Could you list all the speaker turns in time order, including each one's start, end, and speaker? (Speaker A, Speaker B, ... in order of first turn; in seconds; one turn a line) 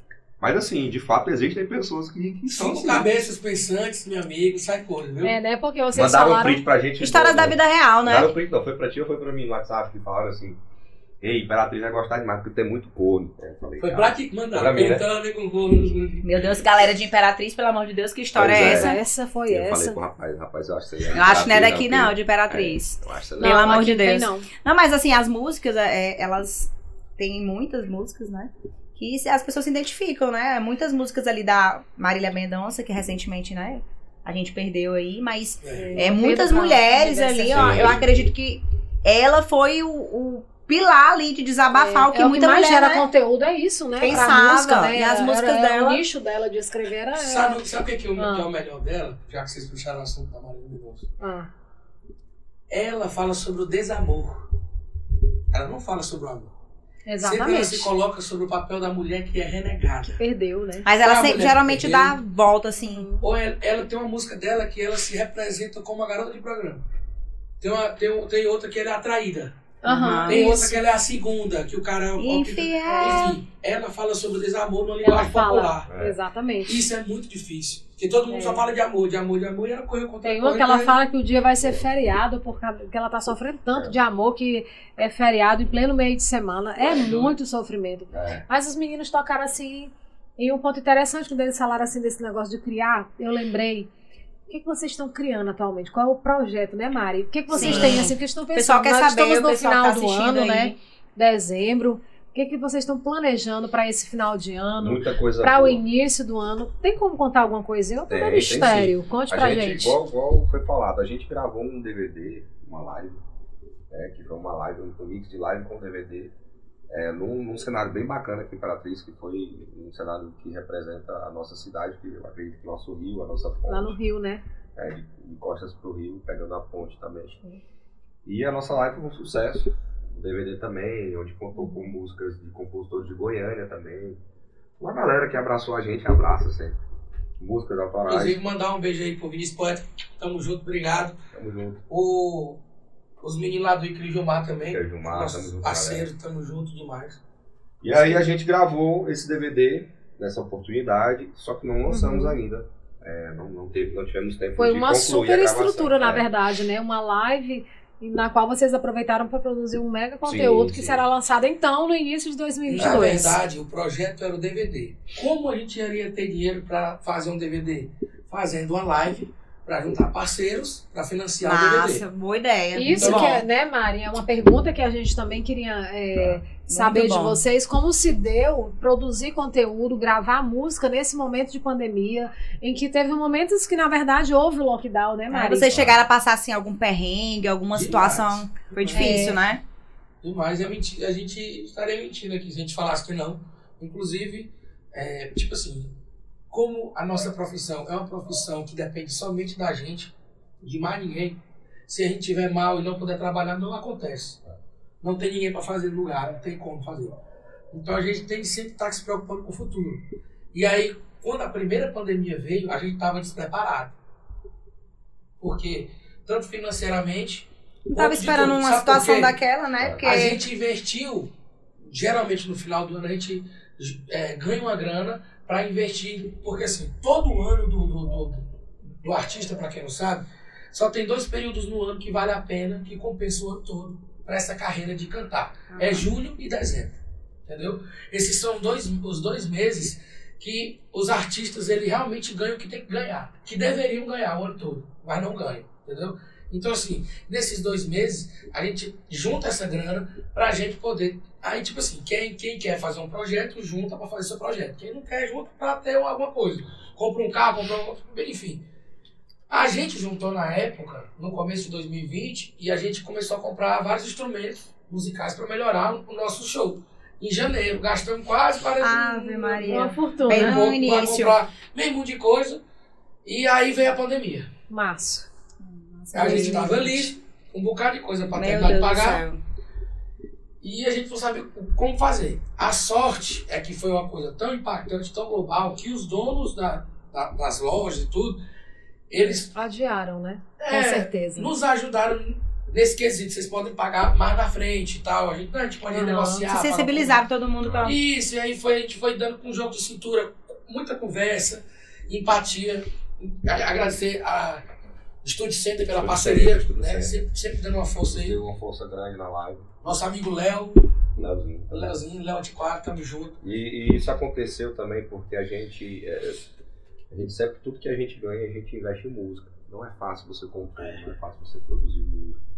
Speaker A: 0.4-3.1
Speaker B: 2.5-5.4
Speaker C: 5.2-6.6
Speaker A: 5.9-10.6
Speaker D: 7.0-8.3
Speaker A: 11.2-15.0
Speaker B: 13.8-16.3
Speaker D: 16.2-19.0
Speaker A: 18.3-23.9
Speaker C: 18.5-20.0
Speaker D: 21.1-43.1
Speaker C: 23.4-24.5
Speaker B: 35.6-36.1
Speaker C: 35.7-38.0
Speaker A: 37.5-38.1
Speaker C: 41.7-47.6
Speaker D: 44.0-46.0
Speaker B: 47.1-51.1
Speaker C: 48.2-48.5
Speaker C: 51.2-51.5
Speaker B: 52.7-54.5
Speaker B: 55.5-56.5
Speaker C: 57.0-57.9
Speaker B: 57.2-60.2
Speaker C: 60.2-60.9
Speaker D: 60.8-63.1
Speaker B: 61.0-62.2
Speaker C: 62.9-63.2
Speaker B: 63.2-66.8
Speaker B: 67.6-69.5
Speaker C: 69.8-70.8
Speaker D: 69.8-70.5
Speaker B: 70.2-75.9
Speaker D: 72.2-73.4
Speaker C: 72.9-73.3
Speaker C: 75.0-76.8
Speaker A: 75.9-76.2
Speaker B: 76.6-81.0
Speaker C: 78.3-78.6
Speaker C: 80.2-93.9
Speaker B: 86.8-87.4
Speaker A: 88.1-88.4
Speaker C: 94.5-109.9
Speaker D: 97.5-100.7
Speaker A: 97.6-97.9
Speaker A: 104.8-105.8
Speaker A: 108.1-113.2
Speaker A: 113.9-116.3
Speaker A: 116.9-124.0
Speaker C: 123.7-124.4
Speaker A: 124.8-127.4
Speaker A: 128.2-134.2
Speaker A: 134.8-136.8
Speaker A: 137.4-138.4
Speaker B: 138.1-141.1
Speaker A: 141.3-141.8
Speaker B: 141.9-142.6
Speaker B: 143.2-147.2
Speaker A: 144.7-146.1
Speaker A: 147.8-156.3
Speaker C: 151.9-152.4
Speaker C: 154.6-163.3
Speaker A: 160.2-161.0
Speaker B: 162.7-172.0
Speaker D: 162.8-163.2
Speaker D: 171.4-173.4
Speaker C: 172.7-185.8
Speaker B: 172.9-173.4
Speaker D: 176.7-177.4
Speaker D: 185.3-189.6
Speaker A: 185.7-186.0
Speaker B: 187.7-189.3
Speaker C: 188.9-189.4
Speaker B: 190.2-195.9
Speaker B: 196.5-200.1
Speaker B: 200.6-204.4
Speaker B: 205.0-207.2
Speaker B: 207.7-213.9
Speaker B: 215.4-219.3
Speaker D: 217.9-220.4
Speaker A: 219.8-220.1
Speaker B: 220.0-221.3
Speaker B: 221.8-228.4
Speaker B: 229.0-258.6
Speaker D: 235.7-236.0
Speaker B: 259.5-272.6
Speaker D: 268.8-271.4
Speaker C: 269.6-270.6
Speaker B: 273.2-274.5
Speaker C: 274.7-275.3
Speaker D: 275.6-276.9
Speaker C: 276.1-277.1
Speaker B: 276.1-279.2
Speaker D: 278.3-279.4
Speaker B: 280.6-288.4
Speaker B: 289.1-289.5
Speaker C: 289.5-291.5
Speaker B: 290.6-297.2
Speaker C: 295.9-296.4
Speaker D: 296.5-298.0
Speaker A: 297.6-297.9
Speaker B: 297.8-304.6
Speaker B: 305.2-308.4
Speaker A: 305.9-307.1
Speaker A: 308.1-309.7
Speaker B: 309.8-310.8
Speaker A: 311.2-311.9
Speaker B: 311.7-313.4
Speaker A: 313.4-316.4
Speaker A: 317.1-322.4